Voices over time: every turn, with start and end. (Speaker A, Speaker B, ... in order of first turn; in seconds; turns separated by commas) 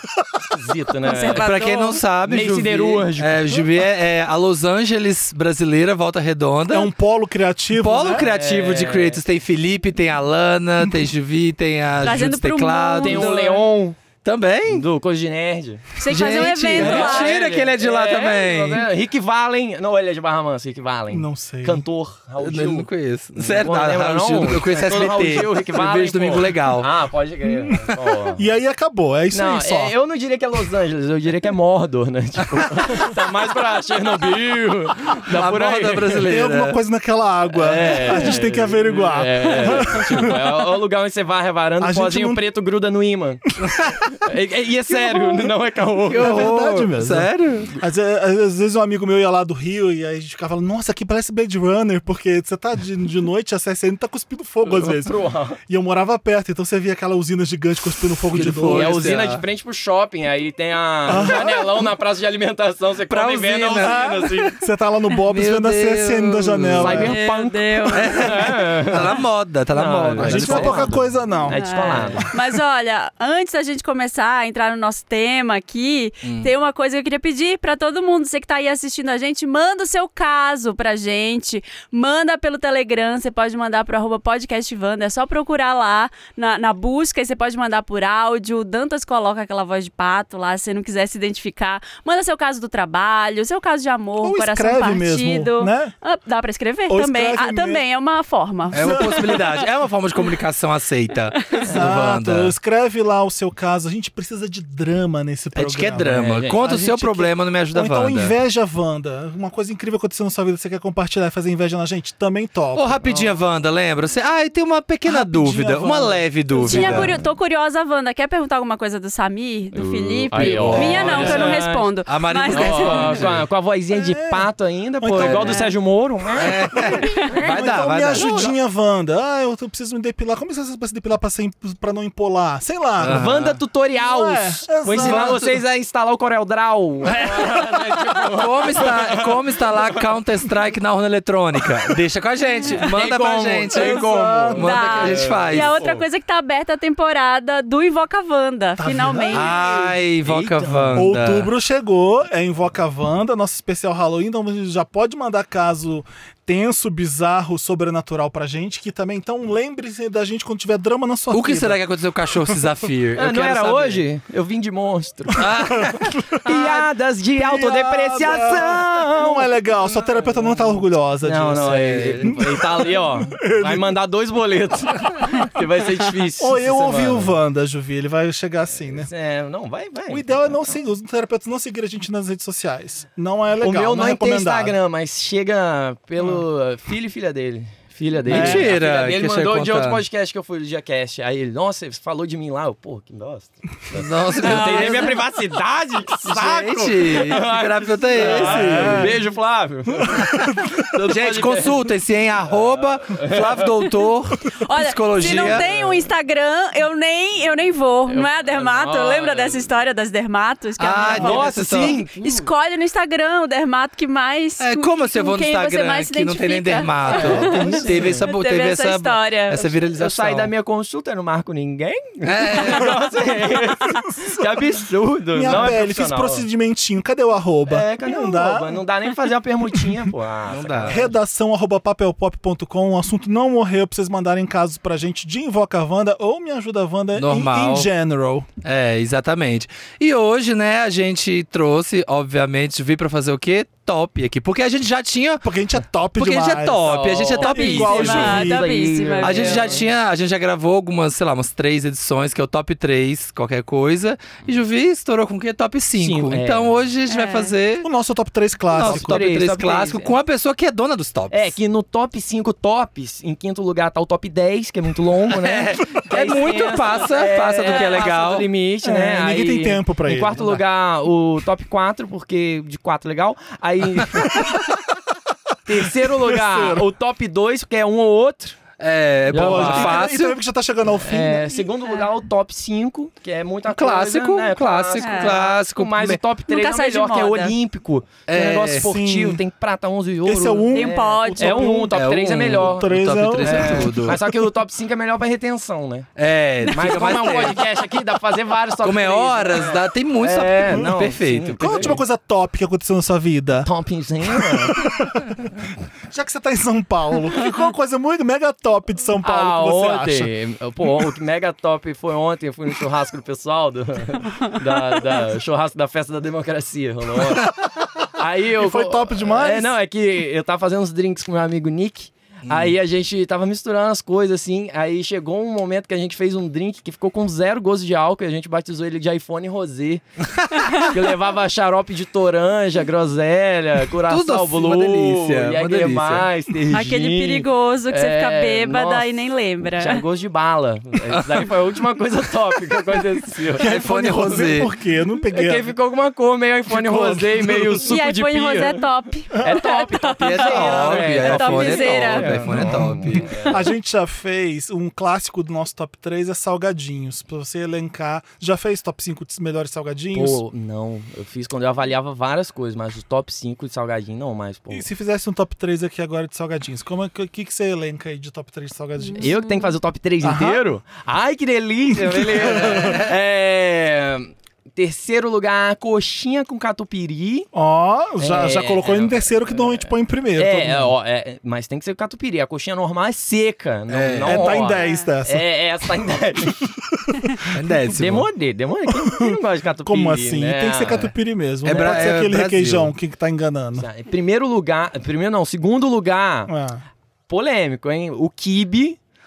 Speaker A: 0.4-1.5, Speaker B: 1.0-2.0, Speaker C: 1.4-6.9, Speaker A: 2.2-3.6, Speaker D: 6.7-8.3, Speaker C: 7.7-13.6, Speaker A: 8.0-9.2, Speaker D: 10.8-11.1, Speaker B: 12.0-13.4, Speaker A: 13.0-13.9, Speaker C: 14.2-14.8, Speaker A: 14.7-15.9, Speaker B: 16.0-17.3, Speaker C: 16.1-18.9, Speaker A: 16.7-28.4, Speaker D: 21.1-21.8, Speaker C: 22.4-26.9, Speaker C: 27.9-28.2, Speaker D: 28.4-29.9, Speaker A: 29.3-36.2, Speaker C: 35.2-36.8, Speaker D: 36.2-40.6, Speaker A: 37.5-43.4, Speaker D: 41.8-42.4, Speaker A: 44.1-46.5, Speaker C: 46.1-47.7, Speaker D: 46.1-59.2, Speaker A: 54.8-55.6, Speaker C: 58.3-59.4, Speaker A: 58.6-64.6, Speaker D: 61.0-61.8, Speaker C: 63.1-64.2, Speaker D: 63.8-67.2, Speaker C: 65.2-67.1, Speaker A: 66.8-69.2, Speaker B: 67.0-68.5, Speaker C: 67.9-70.9, Speaker A: 69.7-72.2, Speaker D: 70.2-72.3, Speaker B: 71.5-99.6, Speaker C: 76.2-76.5, Speaker D: 94.2-95.9, Speaker D: 96.9-97.8, Speaker D: 98.7-99.4, Speaker C: 98.7-102.5, Speaker D: 101.6-113.1, Speaker C: 105.5-108.3, Speaker A: 106.2-106.6, Speaker C: 112.7-117.1, Speaker D: 115.1-117.1, Speaker B: 116.6-123.2, Speaker A: 116.7-117.2, Speaker A: 119.7-121.9, Speaker C: 120.3-123.4, Speaker D: 120.8-121.2, Speaker A: 122.5-127.0, Speaker D: 123.9-124.5, Speaker D: 125.0-125.5, Speaker C: 125.1-125.5, Speaker B: 125.4-125.7, Speaker C: 126.3-128.5, Speaker D: 126.7-133.2, Speaker C: 133.0-133.6, Speaker A: 133.0-140.2, Speaker D: 133.9-135.6, Speaker C: 134.9-135.5, Speaker C: 137.1-145.8, Speaker B: 142.4-142.9, Speaker A: 142.8-146.0, Speaker D: 143.8-144.6, Speaker B: 144.5-149.6, Speaker D: 148.8-149.5, Speaker C: 149.3-151.5, Speaker A: 149.6-151.2, Speaker D: 150.9-161.8, Speaker C: 161.3-164.0, Speaker A: 163.2-165.9, Speaker C: 165.4-166.8, Speaker D: 165.8-166.4, Speaker A: 166.4-177.3, Speaker D: 167.3-173.9, Speaker C: 171.5-172.3, Speaker D: 176.4-179.1, Speaker A: 178.8-180.8, Speaker D: 180.1-184.8, Speaker A: 183.6-201.8, Speaker D: 188.3-188.7, Speaker C: 188.3-190.0, Speaker C: 193.9-195.2, Speaker B: 194.4-195.2, Speaker C: 196.2-199.1, Speaker D: 198.3-199.2, Speaker D: 200.0-200.7, Speaker C: 200.2-205.6, Speaker A: 203.0-203.7, Speaker B: 204.5-219.5, Speaker A: 205.2-206.0, Speaker A: 208.1-209.7, Speaker C: 210.8-212.0, Speaker A: 211.1-212.5, Speaker D: 211.1-211.4, Speaker C: 214.6-220.5, Speaker D: 217.1-218.2, Speaker A: 217.1-218.2, Speaker A: 219.5-226.4, Speaker C: 222.2-223.1, Speaker D: 224.2-224.6, Speaker D: 225.3-228.8, Speaker A: 227.7-231.1, Speaker C: 230.5-231.0, Speaker D: 230.8-238.5, Speaker C: 237.2-237.9, Speaker C: 238.6-245.5, Speaker D: 245.4-248.7, Speaker C: 246.2-248.4, Speaker A: 246.8-249.8, Speaker B: 247.4-249.8, Speaker C: 249.2-257.9, Speaker A: 256.0-256.7, Speaker B: 257.1-257.5, Speaker D: 257.8-259.2, Speaker C: 258.7-261.5, Speaker A: 258.8-260.1, Speaker A: 261.3-274.6, Speaker C: 265.3-268.5, Speaker B: 267.6-268.3, Speaker D: 268.8-270.6, Speaker D: 274.4-274.7, Speaker A: 275.6-278.6, Speaker D: 275.7-276.9, Speaker C: 278.8-280.4, Speaker A: 279.3-280.1, Speaker D: 279.3-281.6, Speaker A: 281.0-296.1, Speaker C: 283.7-286.2, Speaker B: 285.0-285.4, Speaker B: 286.5-287.5, Speaker C: 288.3-288.9, Speaker D: 288.7-289.4, Speaker D: 290.2-292.0, Speaker B: 290.7-291.9, Speaker C: 291.9-294.2, Speaker D: 292.5-294.3, Speaker C: 296.1-297.6, Speaker B: 296.6-297.7, Speaker A: 296.7-302.0, Speaker C: 298.8-302.0, Speaker D: 300.7-301.0, Speaker D: 301.6-303.7, Speaker A: 303.6-304.9, Speaker D: 304.2-305.5, Speaker D: 306.1-310.3, Speaker A: 309.2-317.5, Speaker A: 318.1-330.0, Speaker D: 318.5-319.7, Speaker C: 322.5-322.7, Speaker A: 330.8-343.7, Speaker C: 334.1-336.3, Speaker B: 336.7-340.0, Speaker C: 343.6-344.7, Speaker D: 343.6-345.7, Speaker A: 345.3-353.7, Speaker D: 346.7-347.8, Speaker B: 347.9-352.4, Speaker C: 350.2-353.4, Speaker D: 352.5-360.4, Speaker A: 360.1-364.9, Speaker D: 364.7-369.4, Speaker B: 369.0-369.7, Speaker A: 369.1-377.5, Speaker D: 370.2-370.6, Speaker D: 371.9-373.1, Speaker C: 372.6-373.1, Speaker D: 377.5-380.9, Speaker A: 378.2-386.7, Speaker C: 383.9-384.6, Speaker D: 384.2-385.4, Speaker B: 384.7-385.1, Speaker D: 386.7-387.3, Speaker C: 387.5-388.3, Speaker A: 387.9-391.1, Speaker D: 388.9-393.9, Speaker C: 391.6-392.9, Speaker A: 393.7-396.5, Speaker D: 396.5-396.8, Speaker A: 397.3-399.0